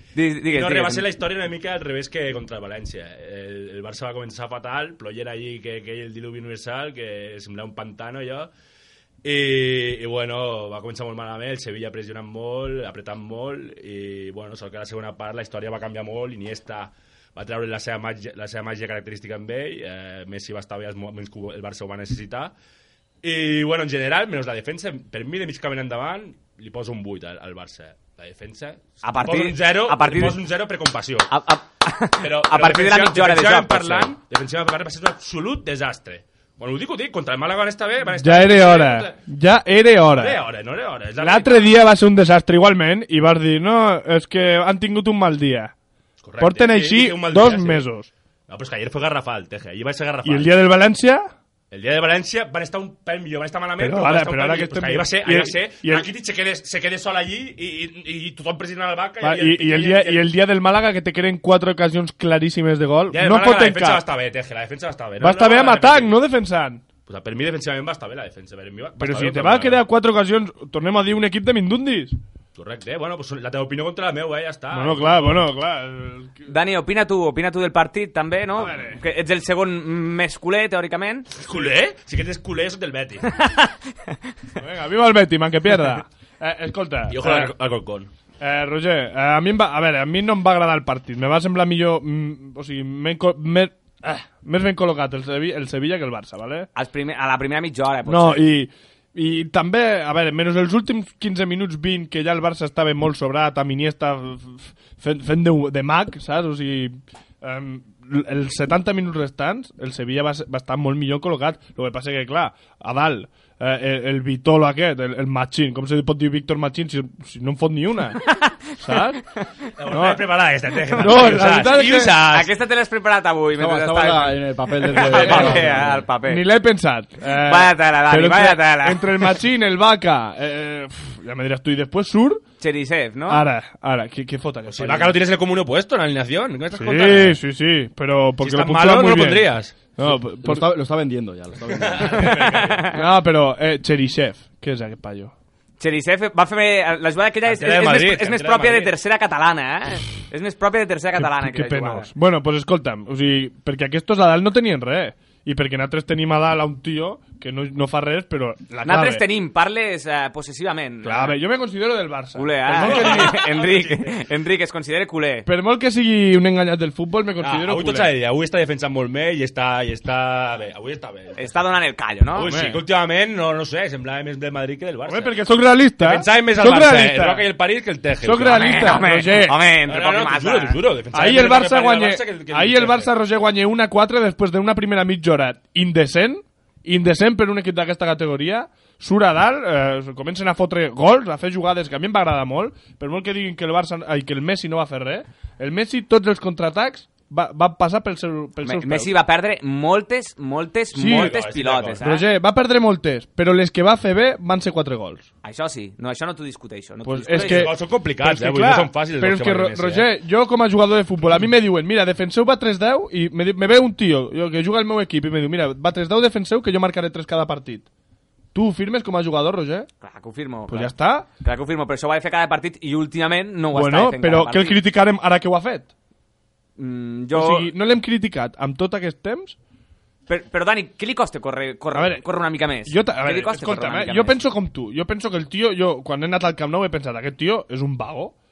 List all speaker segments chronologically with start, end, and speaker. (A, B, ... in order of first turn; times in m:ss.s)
0:00.2-0:01.1 A
0:00.5-0:08.5 B
0:09.2-0:22.5 B
0:23.2-0:31.3 B
0:29.0-0:30.4 A
0:31.3-0:34.1 A
0:32.2-0:39.2 B
0:38.2-0:40.4 C
0:40.1-0:41.7 B
0:41.2-0:45.7 C
0:46.2-0:47.9 B
0:46.4-0:48.1 C
0:48.5-0:50.5 B
0:50.2-0:51.3 C
0:51.7-1:00.3 B
0:53.8-0:56.1 C
0:59.2-1:04.0 C
1:03.1-1:06.2 B
1:05.2-1:06.8 C
1:07.1-1:09.8 B
1:09.0-1:12.2 C
1:12.6-1:15.4 B
1:14.7-1:16.4 C
1:16.5-1:21.3 A
1:18.6-1:19.0 C
1:21.4-1:23.3 B
1:23.4-1:23.7 A
1:24.6-1:27.5 C
1:27.1-1:28.1 B
1:28.4-1:36.7 C
1:36.8-1:38.5 A
1:38.1-1:59.2 C
1:58.2-1:58.6 A
1:59.8-2:02.5 B
1:59.9-2:00.3 C
2:00.9-2:02.2 C
2:02.3-2:06.4 A
2:03.6-2:06.1 D
2:05.0-2:05.7 B
2:05.1-2:12.4 C
2:07.4-2:09.4 A
2:12.6-2:13.4 A
2:13.3-2:15.2 C
2:14.7-2:17.4 B
2:16.8-2:20.7 C
2:18.4-2:19.8 B
2:20.0-2:22.5 D
2:21.7-2:22.9 B
2:22.5-2:23.0 A
2:22.9-2:25.3 C
2:25.8-2:32.1 A
2:27.4-2:28.9 B
2:31.2-2:39.2 C
2:38.8-2:41.4 A
2:41.0-2:43.4 C
2:42.4-2:45.5 A
2:42.8-2:44.2 B
2:45.4-2:48.1 C
2:47.4-2:51.5 B
2:51.4-2:52.5 A
2:52.4-2:55.4 B
2:52.4-2:52.8 C
2:55.1-2:57.4 C
2:56.0-2:59.1 B
2:58.2-2:59.6 C
2:58.5-3:00.8 A
2:59.8-3:03.1 B
3:01.1-3:19.1 C
3:18.6-3:22.3 A
3:21.0-3:21.4 C
3:21.0-3:22.0 B
3:22.0-3:25.2 C
3:25.4-3:27.7 A
3:27.0-3:37.8 C
3:27.3-3:30.1 B
3:38.5-3:39.9 C
3:40.0-3:44.8 A
3:40.7-3:41.3 C
3:43.7-3:45.9 C
3:46.8-3:47.7 A
3:47.3-3:49.6 C
3:50.3-3:54.4 A
3:51.9-3:52.2 C
3:52.9-3:58.3 C